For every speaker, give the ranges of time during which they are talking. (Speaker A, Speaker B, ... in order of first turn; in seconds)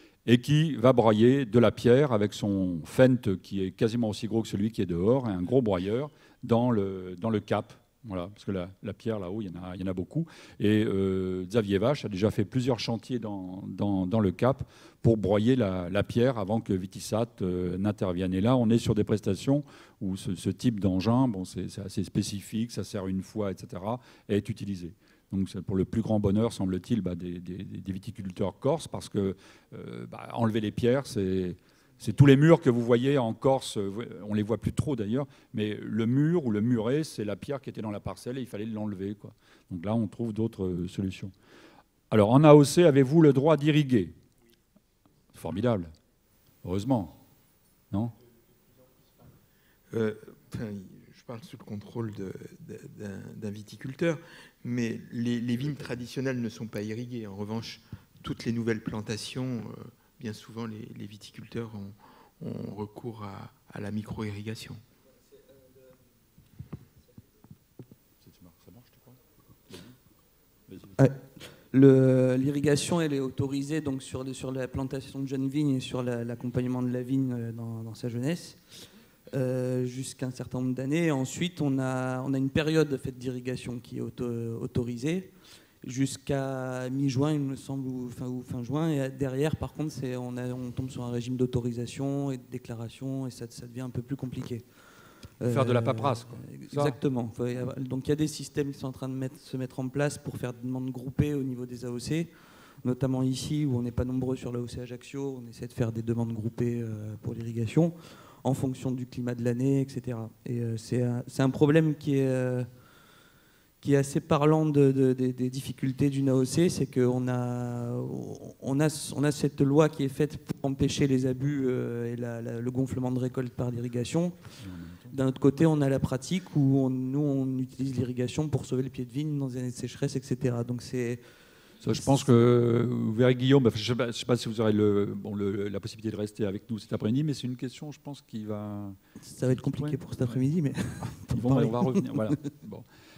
Speaker A: 0.3-41.3, 42.1-44.1, 45.3-45.9, 46.6-47.2, 68.2-70.0, 70.7-71.0, 95.5-97.0, 124.6-125.2, 131.8-139.0, 139.5-140.4, 141.0-142.8
Speaker B: 49.9-64.8
Speaker C: 71.0-78.6, 79.3-94.9, 95.4-112.7, 113.8-124.4, 125.1-131.2, 131.9-132.2, 139.2-142.4